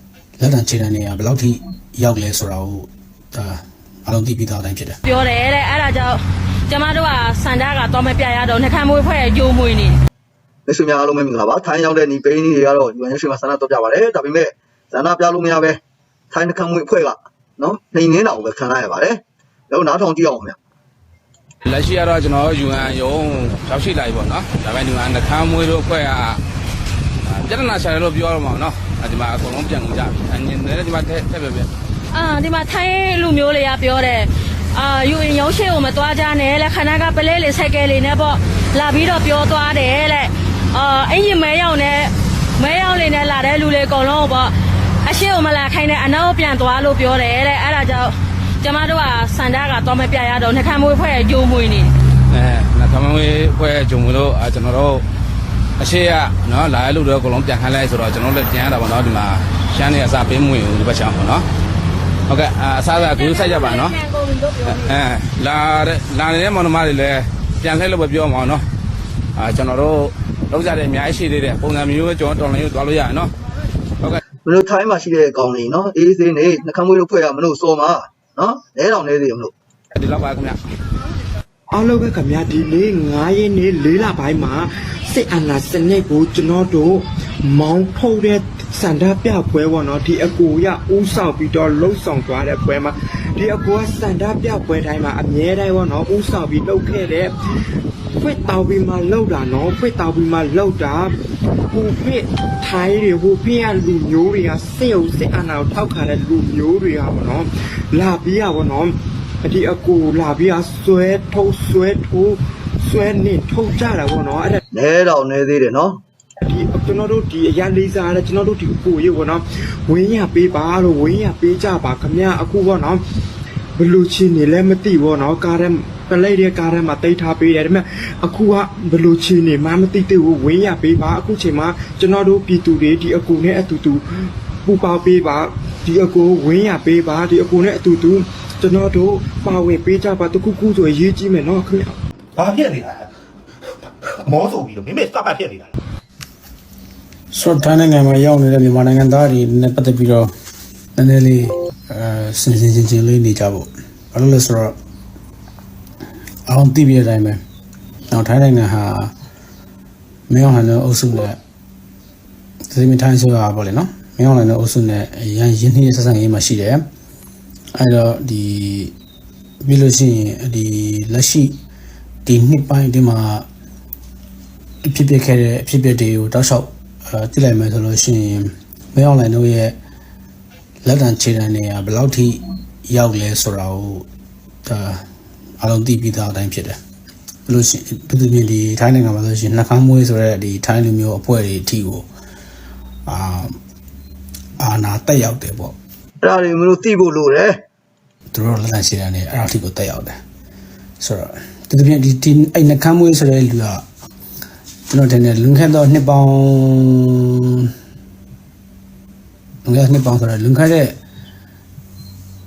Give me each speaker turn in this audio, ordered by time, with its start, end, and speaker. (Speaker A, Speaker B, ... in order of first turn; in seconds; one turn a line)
Speaker A: 0.4-5.0
Speaker B: 5.0-10.0
Speaker C: 10.7-15.8
Speaker C: 16.3-20.6
Speaker D: 21.6-26.4
Speaker D: 27.3-31.7
Speaker B: 32.1-44.5
Speaker B: 45.0-51.9
Speaker D: 52.3-55.0
Speaker D: 55.8-61.5
Speaker D: 62.3-64.0
Speaker B: 63.0-64.9
Speaker D: 64.7-68.6
Speaker D: 69.4-73.3
Speaker C: 74.5-79.5
Speaker D: 79.9-80.6
Speaker E: 81.7-97.3
Speaker E: 98.2-101.1
Speaker E: 101.7-114.6
Speaker C: 114.7-116.0
Speaker E: 116.4-123.0
Speaker E: 123.8-142.0
Speaker F: 142.3-143.1
Speaker F: 143.8-145.7
Speaker A: 147.3-150.3
Speaker A: 150.9-154.8
Speaker A: 156.5-157.4
Speaker A: 158.1-159.1
Speaker A: 160.3-161.4
Speaker A: 162.7-166.8
Speaker A: 167.8-168.9
Speaker A: 169.6-171.6
Speaker A: 172.2-173.5
Speaker A: 174.8-179.8
Speaker A: 180.8-184.1
Speaker A: 184.7-185.0
Speaker A: 185.6-186.8
Speaker A: 187.5-192.1
Speaker A: 193.1-193.6
Speaker A: 194.6-195.7
Speaker C: 196.2-197.6
Speaker A: 198.3-200.2
Speaker A: 201.0-203.8
Speaker A: 204.9-207.7
Speaker A: 209.6-211.0